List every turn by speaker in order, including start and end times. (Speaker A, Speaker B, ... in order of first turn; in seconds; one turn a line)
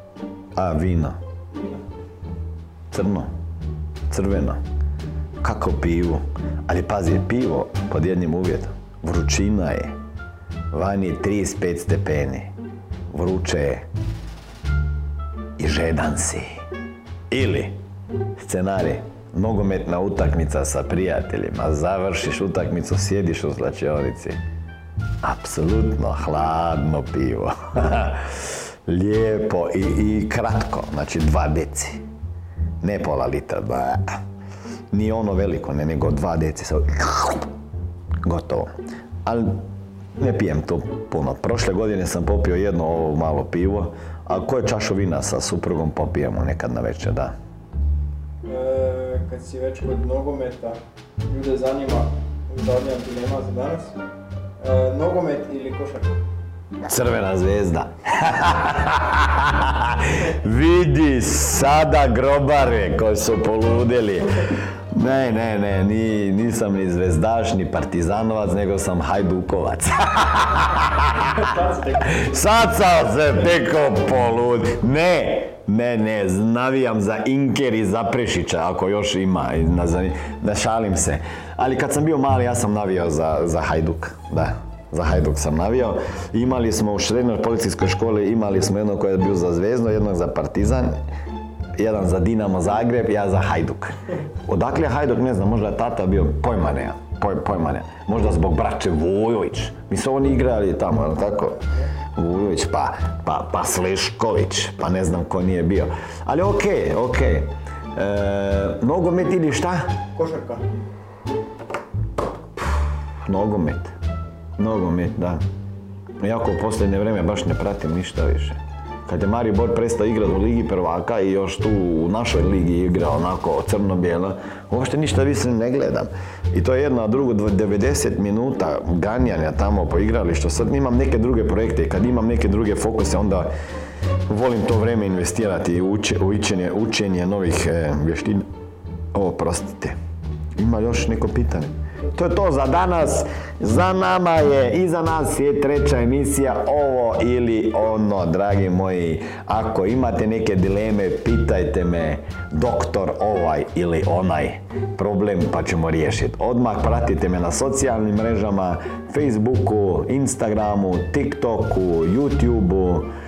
Speaker A: 0.6-1.2
Speaker B: 1.5-1.8
Speaker A: 2.9-3.3
Speaker A: 4.1-4.6
Speaker A: 5.4-9.9
Speaker A: 10.7-12.5
Speaker A: 13.1-13.8
Speaker A: 15.6-16.6
Speaker A: 17.3-17.7
Speaker A: 18.4-24.4
Speaker A: 25.2-32.0
Speaker A: 32.8-34.1
Speaker A: 34.9-37.5
Speaker A: 38.2-38.7
Speaker A: 39.2-39.6
Speaker A: 40.2-47.3
Speaker B: 48.4-53.9
Speaker B: 54.6-56.1
Speaker A: 56.8-71.3
Speaker B: 71.3-72.1
Speaker A: 72.1-90.9
Speaker A: 91.8-101.6
Speaker A: 102.2-109.9
Speaker B: 110.1-110.7
Speaker A: 112.6-113.9
Speaker A: 114.6-115.4
Speaker A: 116.2-133.5
Speaker A: 134.3-138.4
Speaker A: 139.1-139.9
Speaker A: 140.6-163.1